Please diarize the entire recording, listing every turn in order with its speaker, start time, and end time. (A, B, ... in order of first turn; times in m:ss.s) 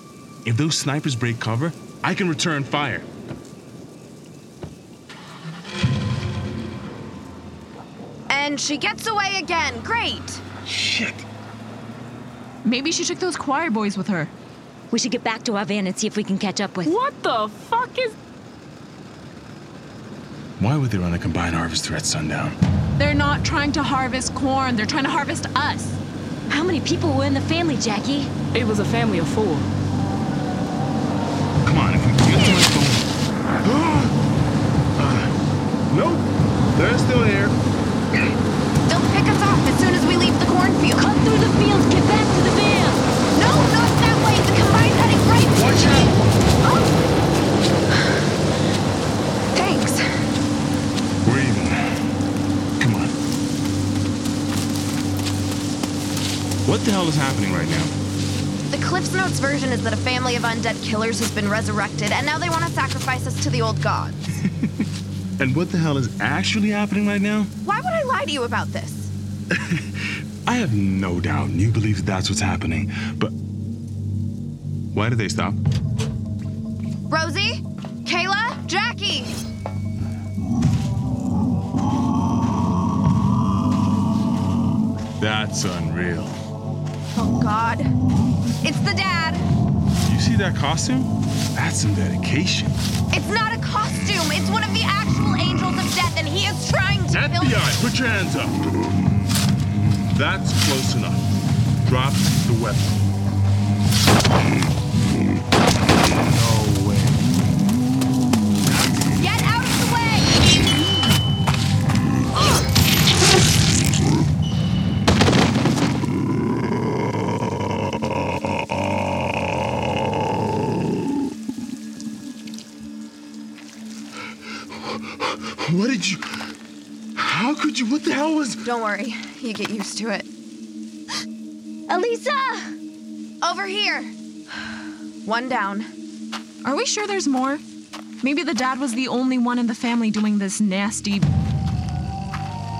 0:00.4-0:03.0 A
0:08.3-0:10.4 B
0:10.6-0:11.2 A
0:12.6-0:14.3 C
0:14.9-0:17.0 D
0:16.8-0:18.1 E
0:20.6-0:22.6 A
0:23.0-0:26.0 C
0:26.5-0:28.3 D
0:28.5-0:29.7 E
0:31.6-0:33.1 A
0:33.6-0:34.1 A
0:35.0-0:35.3 A
0:35.9-0:37.5 A
0:38.8-0:41.0 B
0:41.0-0:43.0 D
0:43.3-0:46.9 B
0:45.5-0:46.1 A
0:49.5-0:50.0 B
0:51.2-0:52.0 A
0:52.8-0:53.1 A
0:56.6-0:57.9 A
0:58.7-1:04.2 B
1:05.4-1:07.5 A
1:07.6-1:09.1 B
1:09.6-1:09.9 A
1:10.4-1:13.3 A
1:14.9-1:15.6 A
1:17.1-1:19.3 B
1:25.2-1:26.4 A
1:27.1-1:27.9 B
1:28.6-1:29.4 B
1:30.0-1:32.8 A
1:33.1-1:37.6 B
1:37.1-1:38.6 A
1:39.7-1:41.2 A
1:41.8-1:43.0 A
1:46.0-1:47.3 A
1:49.2-1:50.3 B
2:04.9-2:06.5 A
2:07.2-2:08.6 A
2:08.6-2:10.3 B
2:11.9-2:12.7 D
2:13.4-2:14.1 B
2:15.2-2:15.9 B
2:16.6-2:17.6 C
2:18.2-2:21.3 C